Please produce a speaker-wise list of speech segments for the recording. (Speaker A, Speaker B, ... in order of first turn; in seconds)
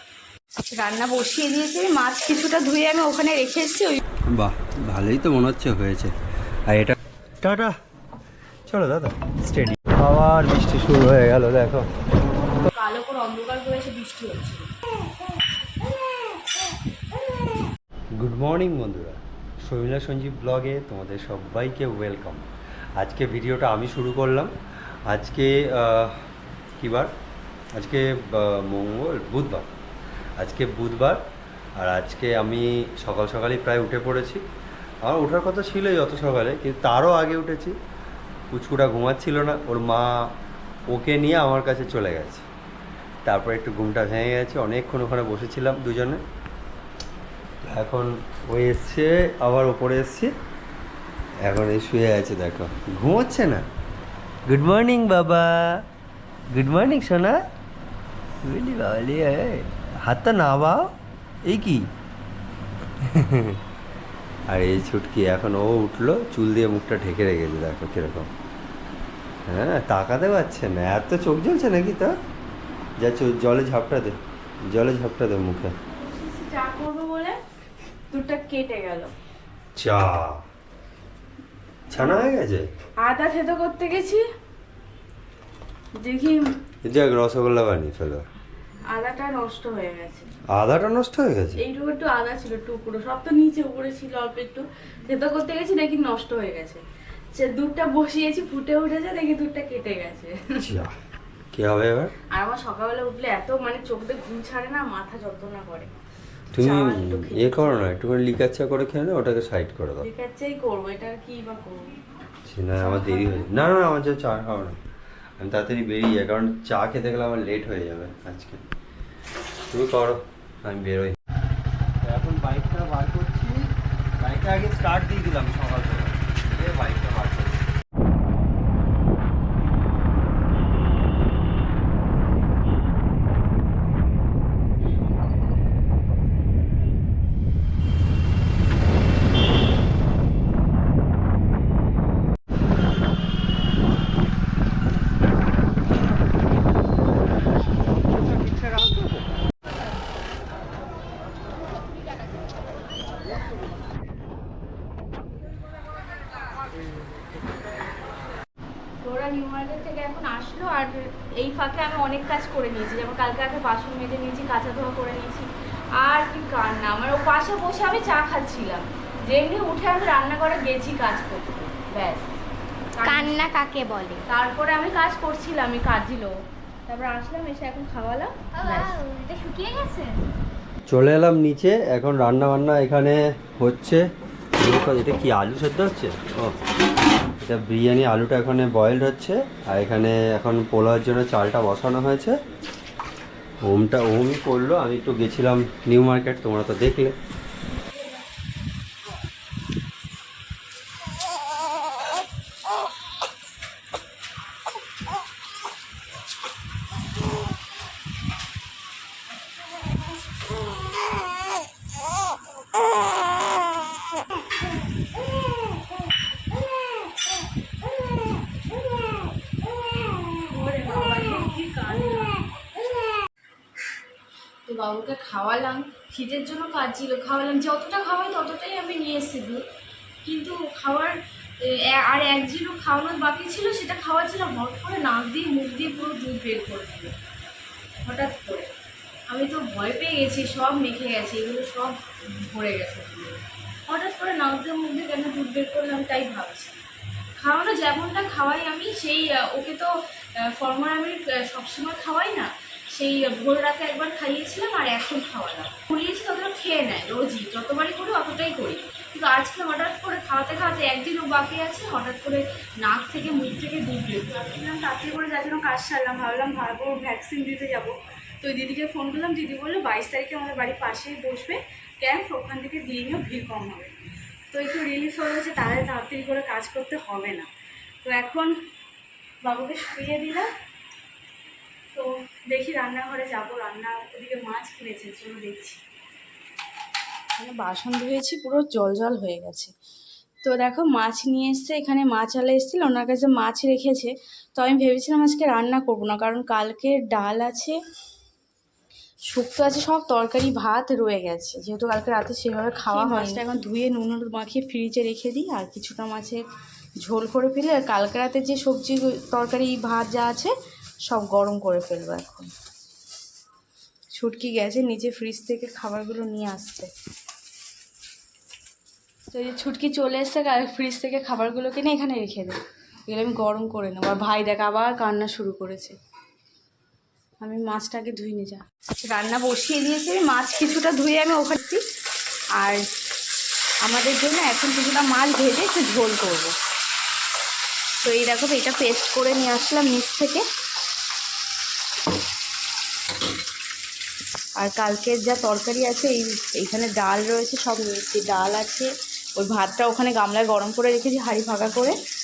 Speaker A: 0.7-4.0, 12.7-14.7, 76.0-77.4, 78.1-79.1, 81.9-82.2, 83.0-84.2, 86.0-86.4, 88.9-90.3, 91.6-96.8, 97.3-100.7, 102.3-105.9, 106.5-107.7, 110.0-111.9, 112.8-113.5, 159.0-172.3, 173.0-173.5, 174.2-176.3, 176.9-179.4, 220.3-222.4, 224.7-229.6, 230.2-237.1, 238.0-238.7, 239.3-246.8, 247.4-273.9, 274.5-277.5, 278.0-278.5, 279.4-280.5, 281.9-285.8, 287.4-289.7, 290.4-297.8, 299.3-306.4, 307.0-310.5, 311.1-312.5, 314.1-316.9, 319.3-326.0, 327.4-331.8, 333.8-336.5, 338.0-340.4, 344.6-351.9
Speaker B: 4.3-6.1, 6.7-7.7, 8.7-11.9, 18.2-22.4, 23.0-24.5, 25.1-26.2, 26.8-27.1, 27.7-29.7, 30.4-31.2, 31.8-34.4, 35.0-37.8, 38.5-40.1, 40.9-42.5, 43.2-46.2, 47.6-50.3, 51.4-53.6, 54.5-55.8, 56.5-57.4, 58.4-60.9, 61.4-61.8, 63.0-63.6, 64.5-68.3, 69.5-72.1, 73.0-75.7, 79.8-80.4, 81.9-82.7, 86.8-88.2, 90.5-91.6, 100.6-100.9, 101.5-102.1, 106.5-110.1, 112.5-114.8, 115.4-118.6, 119.7-121.2, 122.0-123.7, 124.2-127.6, 180.9-184.0, 184.6-186.6, 187.4-192.3, 193.6-197.1
Speaker C: 173.0-174.2, 178.7-180.2